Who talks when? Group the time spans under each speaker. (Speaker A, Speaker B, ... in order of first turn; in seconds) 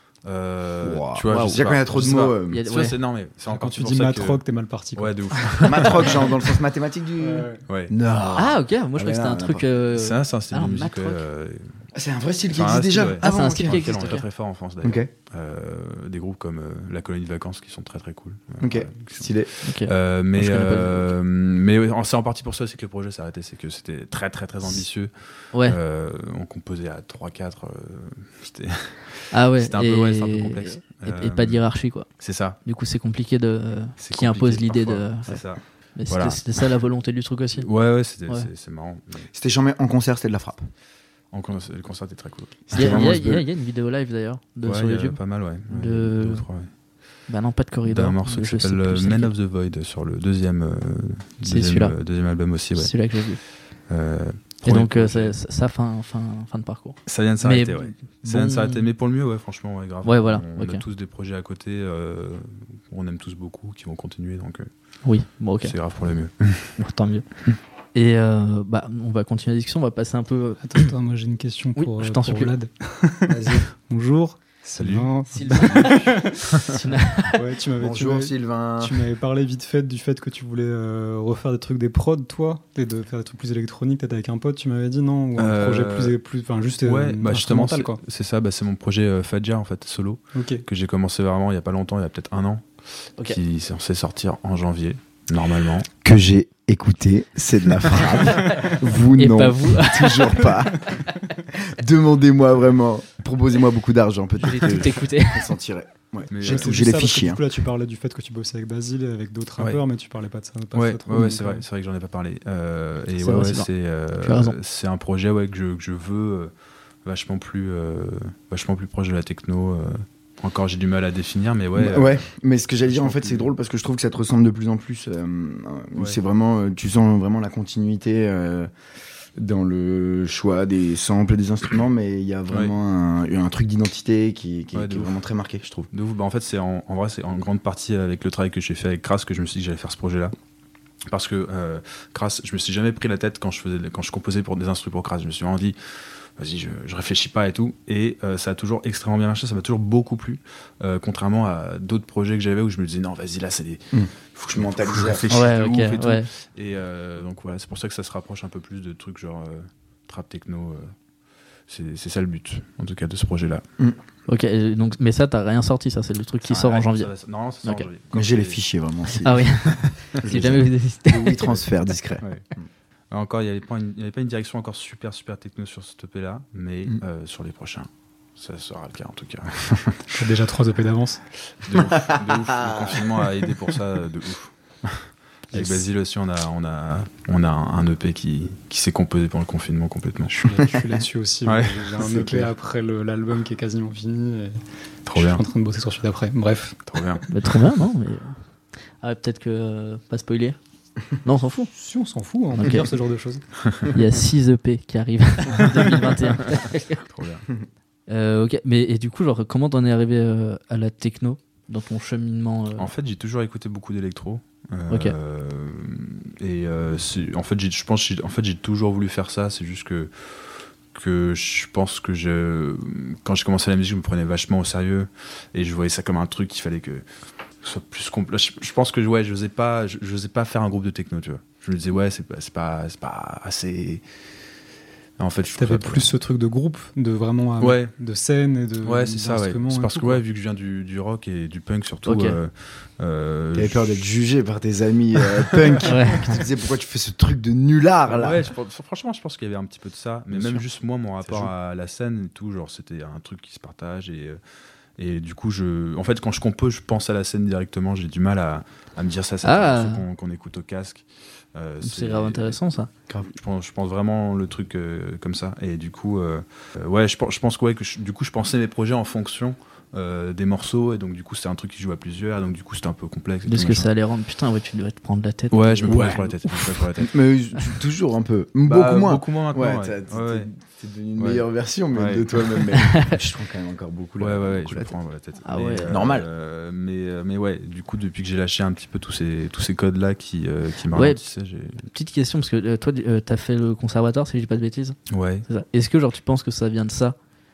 Speaker A: 0.2-4.4, 5.0-6.3, 7.7-7.9, 9.9-11.8, 12.5-31.6, 32.2-32.6, 34.0-36.7, 37.6-39.3, 41.3-43.1, 44.6-46.7, 47.8-52.9, 53.9-55.4, 57.0-64.7, 65.6-66.7, 74.8-75.1, 76.5-76.8, 85.4-86.1, 86.8-92.7, 93.2-95.9, 106.3-106.8, 110.7-116.5, 117.0-122.2, 122.9-123.5, 134.7-135.1, 135.9-140.3, 141.1-160.9, 161.7-163.6, 166.4-168.6, 172.2-172.4, 173.1-180.1, 181.6-190.3, 191.4-192.5, 195.1-195.4, 196.9-197.2, 205.6-207.4, 212.8-220.1, 220.9-227.0, 227.6-234.0, 235.2-236.1, 237.6-237.9, 238.8-244.1, 245.4-245.8, 248.1-254.4, 255.0-262.6, 263.2-273.9, 275.5-277.1, 278.6-280.5, 281.2-282.7, 284.2-291.9, 295.1-295.4
Speaker B: 0.8-2.6, 5.6-9.7, 11.9-14.0, 14.8-15.1, 18.6-19.5, 39.3-40.6, 42.7-43.4, 77.8-79.0, 96.0-100.9, 101.5-107.4, 121.7-128.7, 129.4-135.9, 153.9-155.5, 168.1-172.7, 181.7-183.2, 185.5-185.8, 190.4-190.9, 243.5-248.5, 250.3-250.6, 251.2-251.5, 275.8-276.3, 277.0-284.9, 285.8-286.3
Speaker C: 1.3-2.9, 8.3-11.2, 13.2-14.2, 19.6-21.1, 29.3-32.1, 32.6-35.4, 36.0-37.7, 42.7-46.4, 47.3-49.3, 51.4-51.9, 52.7-53.4, 54.6-58.9, 60.0-60.8, 65.0-65.7, 66.8-67.2, 67.9-70.9, 71.8-72.5, 75.3-77.4, 98.2-101.2, 104.4-105.5, 113.2-113.7, 114.2-114.5, 155.3-156.3, 164.3-167.1, 169.2-171.6, 197.3-198.4, 199.0-200.6, 201.2-201.7, 202.5-202.9, 203.9-207.0, 208.1-212.9, 214.9-215.1, 242.0-242.4, 245.8-246.3, 259.4-260.0, 261.8-262.9, 273.5-276.2, 282.7-283.2, 285.4-285.9, 290.9-291.2, 291.9-297.1
Speaker D: 3.5-6.0, 7.2-7.6, 70.6-76.5, 77.2-88.0, 90.3-90.6, 106.4-111.6, 180.1-181.2, 190.3-194.6, 195.1-196.8, 201.7-203.4, 235.6-240.2